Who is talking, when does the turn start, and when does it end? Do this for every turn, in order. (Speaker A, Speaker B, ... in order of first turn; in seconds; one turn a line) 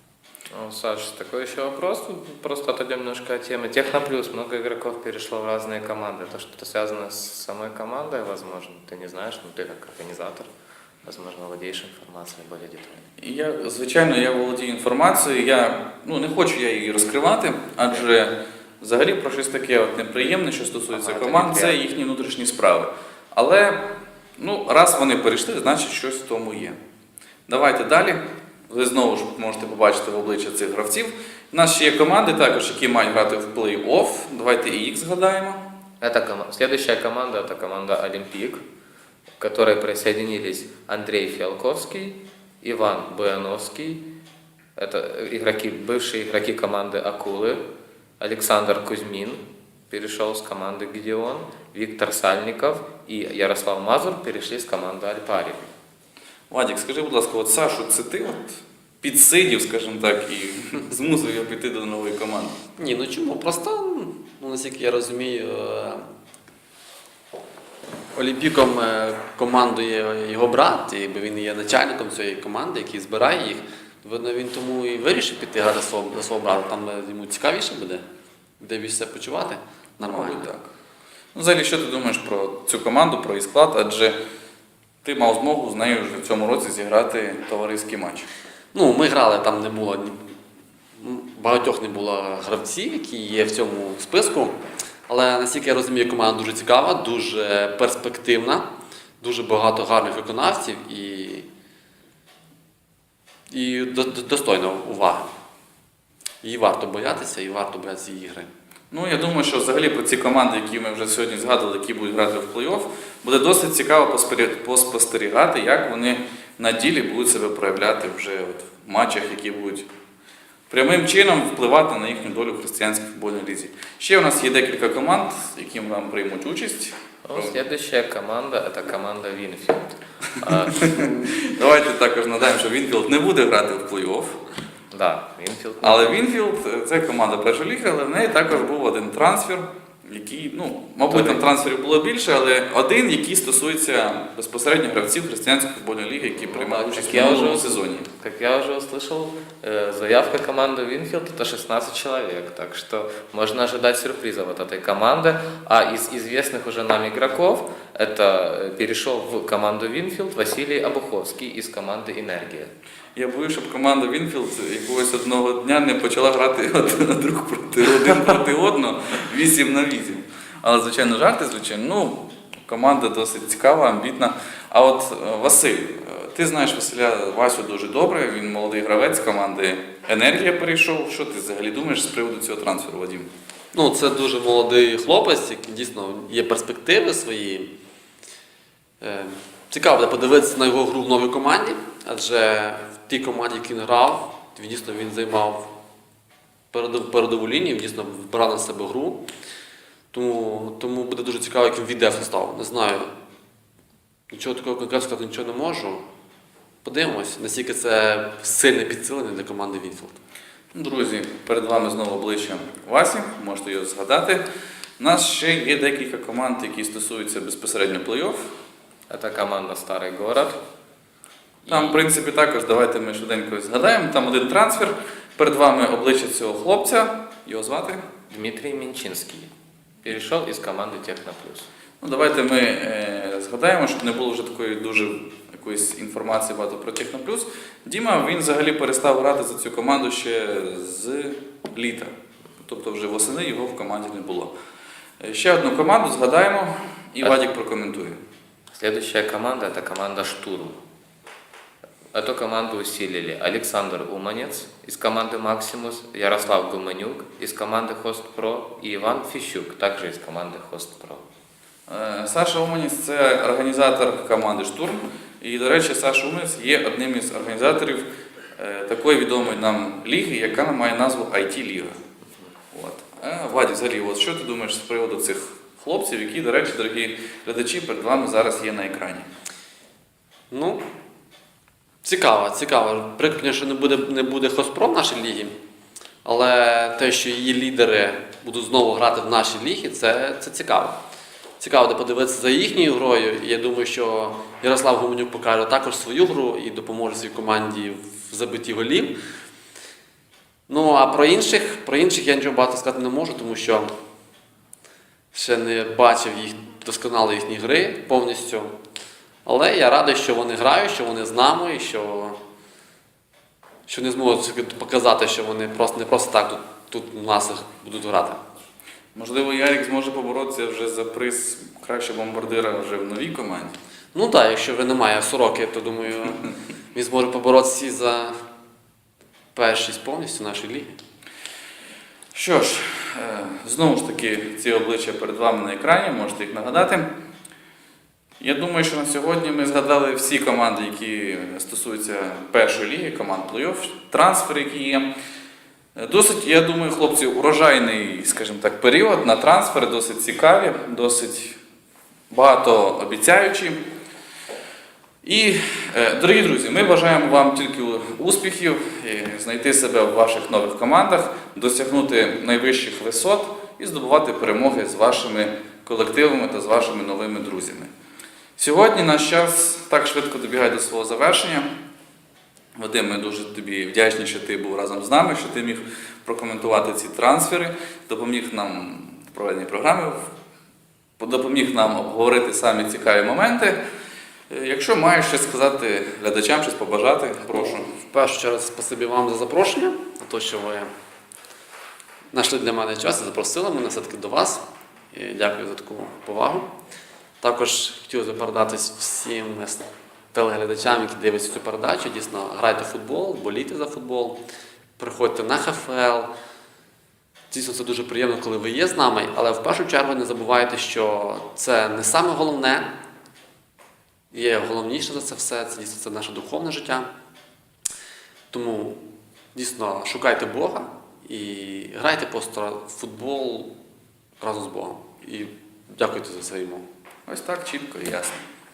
Speaker A: 0.5-10.5
Speaker A: 11.1-13.1
Speaker B: 13.2-26.8
Speaker A: 20.9-21.8
Speaker B: 27.5-35.7
Speaker A: 36.0-38.6
Speaker A: 39.4-44.2
Speaker A: 44.8-47.7
Speaker A: 48.2-55.7
Speaker B: 56.5-62.6
Speaker C: 62.8-66.1
Speaker C: 68.2-78.0
Speaker C: 78.6-80.5
Speaker B: 80.0-80.7
Speaker B: 81.3-84.2
Speaker B: 85.0-88.3
Speaker C: 88.7-90.2
Speaker C: 91.0-94.6
Speaker C: 95.1-98.7
Speaker C: 99.2-101.5
Speaker C: 103.5-105.3
Speaker C: 106.4-108.5
Speaker B: 108.9-119.9
Speaker B: 120.7-127.6
Speaker A: 127.3-131.3
Speaker B: 130.7-134.4
Speaker A: 134.9-136.2
Speaker B: 135.8-148.1
Speaker A: 141.1-141.5
Speaker A: 146.5-162.7
Speaker B: 163.2-183.3
Speaker C: 183.7-187.7
Speaker C: 189.0-195.7
Speaker C: 196.7-199.3
Speaker C: 200.1-203.1
Speaker C: 204.3-206.1
Speaker C: 206.8-210.2
Speaker B: 210.7-214.4
Speaker B: 215.0-218.4
Speaker A: 219.1-220.6
Speaker A: 221.6-222.1
Speaker B: 221.7-228.1
Speaker A: 228.3-229.5
Speaker A: 230.0-231.7
Speaker B: 232.0-244.5
Speaker B: 245.2-248.2
Speaker A: 248.7-250.8
Speaker A: 252.1-261.2
Speaker B: 261.9-272.0
Speaker B: 272.7-279.3
Speaker C: 280.5-280.8
Speaker C: 282.0-285.5
Speaker C: 286.2-291.0
Speaker C: 291.6-299.2
Speaker C: 300.7-303.9
Speaker C: 305.3-308.7
Speaker C: 309.4-312.4
Speaker C: 313.9-318.4
Speaker B: 319.1-323.8
Speaker C: 324.1-328.4
Speaker C: 329.5-331.0
Speaker B: 332.3-337.1
Speaker B: 338.4-345.1
Speaker B: 346.0-351.6
Speaker B: 352.3-353.8
Speaker B: 355.2-367.9
Speaker B: 368.6-371.7
Speaker B: 372.8-380.3
Speaker B: 381.2-383.8
Speaker B: 384.5-387.9
Speaker C: 387.6-390.9
Speaker C: 392.3-396.7
Speaker C: 397.4-404.4
Speaker C: 405.0-406.3
Speaker C: 407.5-412.9
Speaker C: 414.3-417.1
Speaker C: 418.5-423.7
Speaker C: 424.4-426.9
Speaker B: 427.3-428.4